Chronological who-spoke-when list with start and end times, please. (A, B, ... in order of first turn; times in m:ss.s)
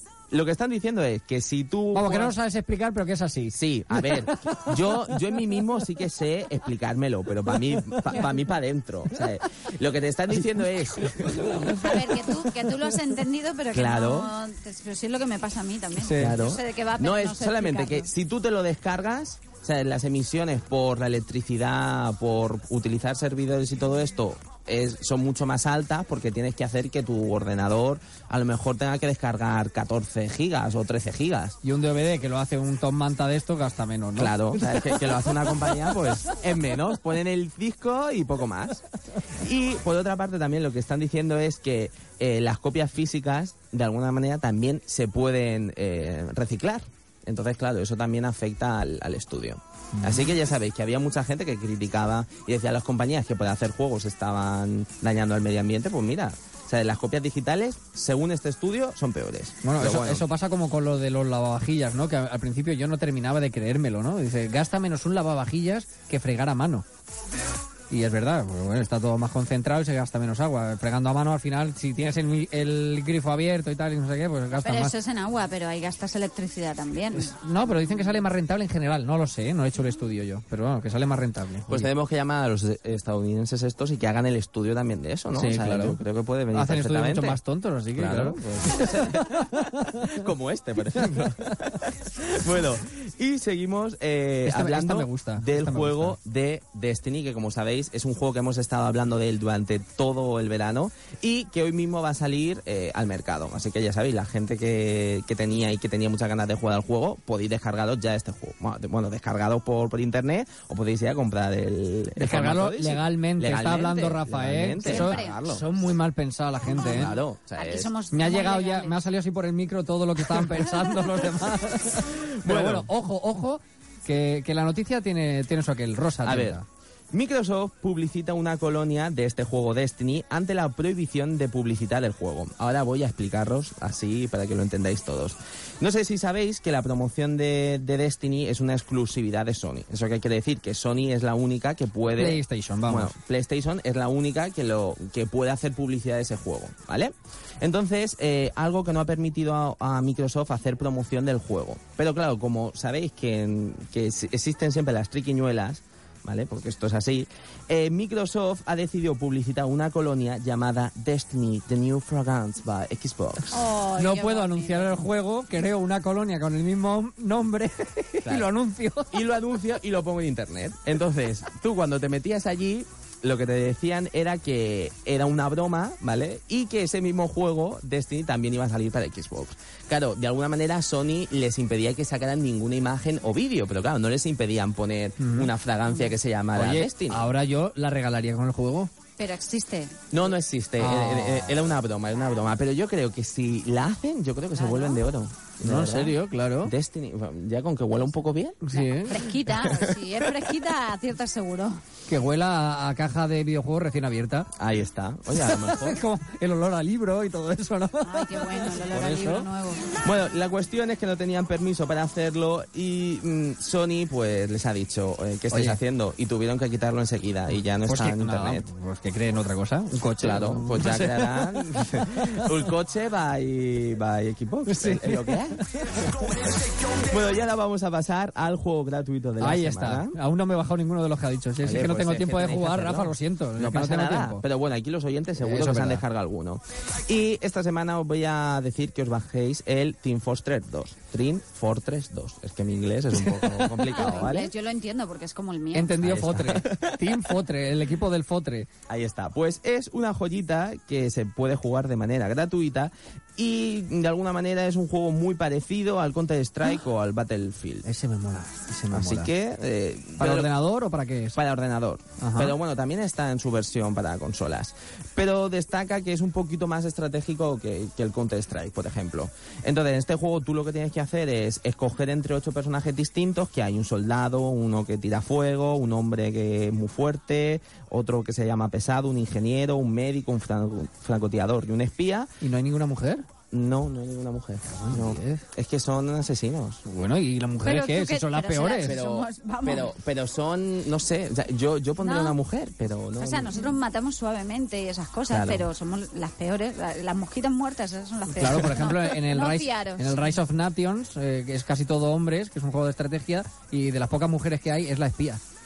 0:00.3-0:02.3 A
0:01.9-0:04.8 B
0:03.5-0:12.1 A
0:08.0-0:08.2 B
0:11.4-0:11.7 B
0:11.8-0:18.1 C
0:13.7-0:14.3 A
0:15.9-0:16.4 B
0:16.2-0:31.6 A
0:31.6-0:35.8 B
0:34.2-0:38.8 A
0:39.4-1:00.2 A
0:59.6-1:06.8 B
1:07.9-1:14.9 B
1:14.6-1:17.3 C
1:17.1-1:21.9 B
1:21.7-1:27.4 A
1:25.3-1:26.0 B
1:26.5-1:30.1 B
1:27.9-1:29.3 A
1:30.0-1:55.6 A
1:34.4-1:36.2 B
1:52.2-1:57.1 B
1:54.8-1:55.5 C
1:56.7-1:59.0 C
1:56.8-1:57.9 A
1:58.1-2:06.6 B
2:02.4-2:02.9 A
2:06.2-2:06.6 A
2:07.1-2:43.5 A
2:22.1-2:23.1 B
2:43.5-2:45.0 C
2:44.0-2:49.2 B
2:48.2-2:48.5 A
2:49.1-3:07.3 A
3:05.2-3:05.5 B
3:05.9-3:06.1 C
3:06.5-3:08.9 B
3:09.2-3:10.0 C
3:10.1-3:18.6 A
3:10.8-3:11.6 B
3:14.6-3:15.0 C
3:15.6-3:16.7 B
3:18.6-3:19.2 B
3:18.7-3:21.8 C
3:19.4-3:20.2 A
3:22.1-3:24.5 B
3:24.6-3:26.0 A
3:25.3-3:29.5 B
3:28.0-3:29.9 C
3:30.0-3:38.6 A
3:35.5-3:35.8 B
3:37.8-3:42.4 B
3:40.2-3:45.6 A
3:44.6-3:46.0 B
3:47.0-3:50.2 A
3:49.4-3:54.4 B
3:51.6-4:04.5 A
3:55.4-3:56.0 B
4:03.2-4:04.0 B
4:03.9-4:06.0 C
4:05.7-4:08.7 B
4:06.0-4:07.1 A
4:08.9-4:17.9 A
4:17.8-4:19.3 B
4:18.9-4:20.5 A
4:20.2-4:21.4 B
4:21.3-4:42.3 A
4:22.2-4:22.5 B
4:42.4-4:43.2 B
4:43.5-4:46.8 A
4:44.7-4:45.4 B
4:46.8-4:49.0 B
4:47.6-4:49.9 C
4:48.8-4:53.6 A
4:52.0-4:52.4 C
4:53.2-5:00.3 C
4:55.3-4:55.7 A
4:58.3-5:05.4 B